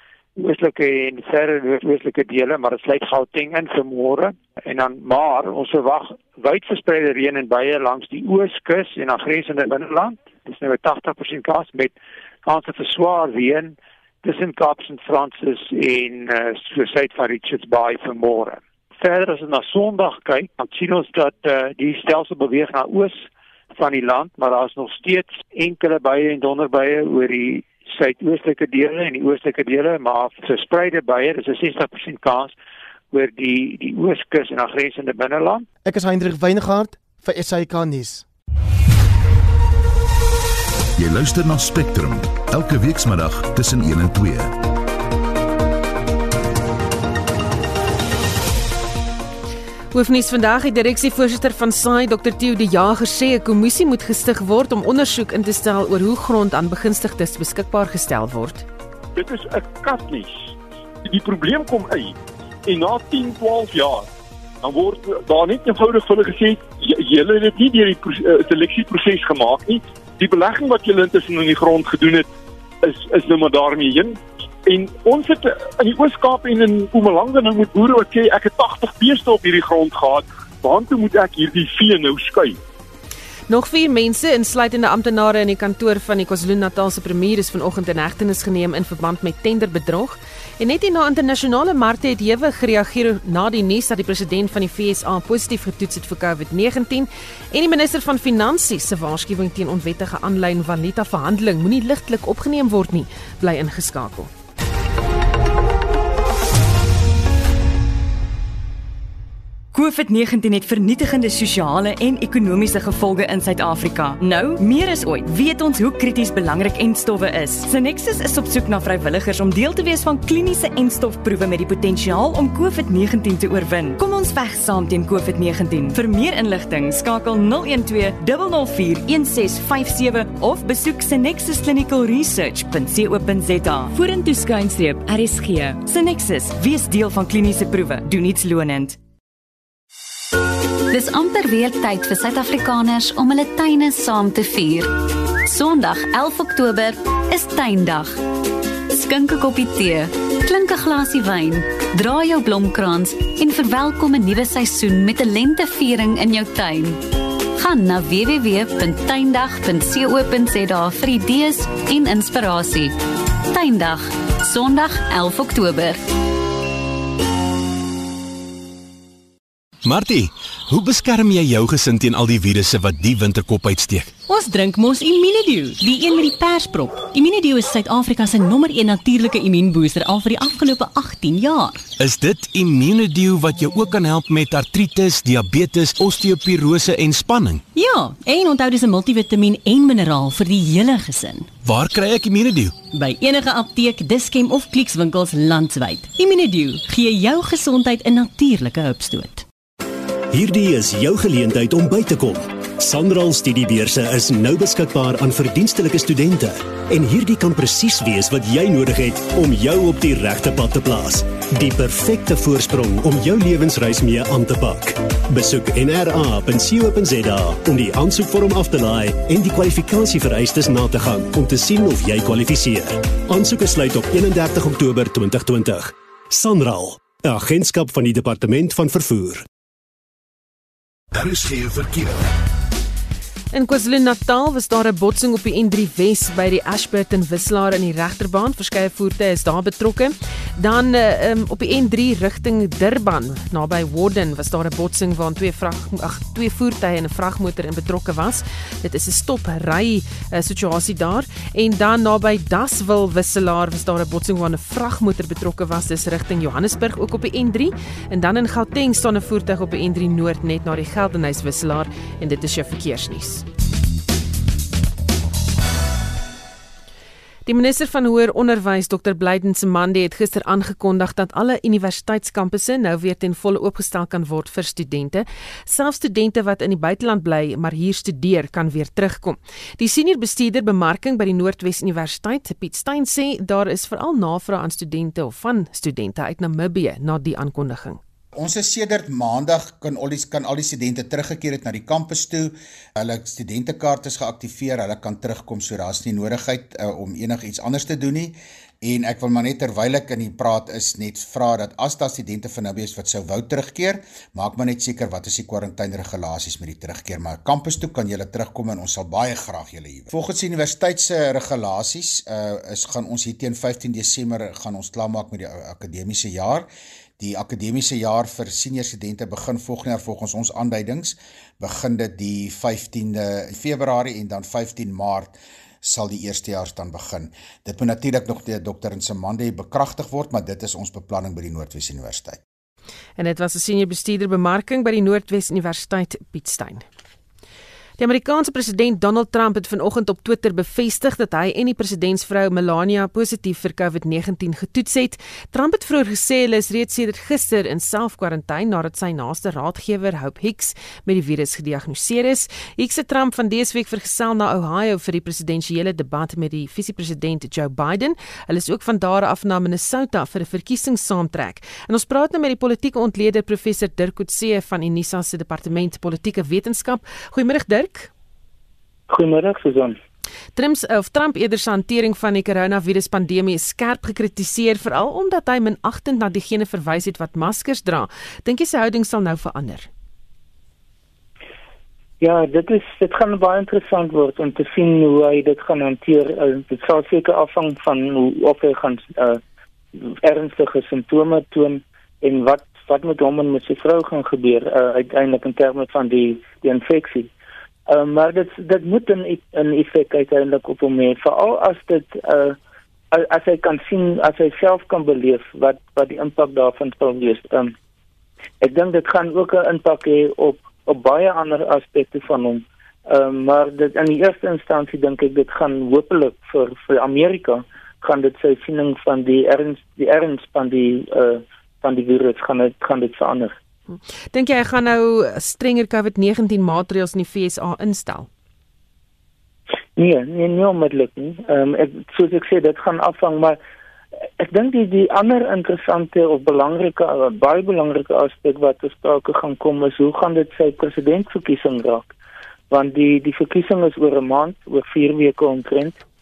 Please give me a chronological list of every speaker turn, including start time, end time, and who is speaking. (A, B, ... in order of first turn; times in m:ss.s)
0:00.4-0:32.5 A
0:33.1-0:35.6 A
0:35.8-0:38.3 B
0:41.0-0:44.5 C
0:49.9-0:58.7 D
0:59.2-1:04.1 E
1:04.6-1:12.3 E
1:12.8-1:22.6 E
1:23.5-1:44.3 D
1:49.7-2:19.0 F
2:20.9-2:28.2 G
2:28.9-2:37.0 G
2:37.6-2:43.0 G
2:43.5-2:46.0 G
2:49.9-2:54.1 H
2:54.3-3:01.9 I
3:02.0-3:07.6 H
3:07.7-3:11.5 I
3:11.6-3:12.7 H
3:12.9-3:19.4 I
3:20.3-3:49.4 J
3:51.1-3:52.2 C
3:53.5-4:23.4 D
4:27.5-4:48.0 D
4:48.4-5:16.7 K
5:17.2-5:32.4 K
5:33.2-5:36.9 D
5:38.0-6:08.1 D
6:09.1-6:10.0 L
6:10.6-6:19.9 D
6:22.2-6:29.4 L
6:30.0-6:37.3 L
6:37.9-6:42.6 L
6:43.1-6:47.8 L
6:48.6-7:03.6 L
7:04.3-7:08.3 D
7:10.0-7:13.6 L
7:14.4-7:22.1 L
7:22.7-7:26.0 L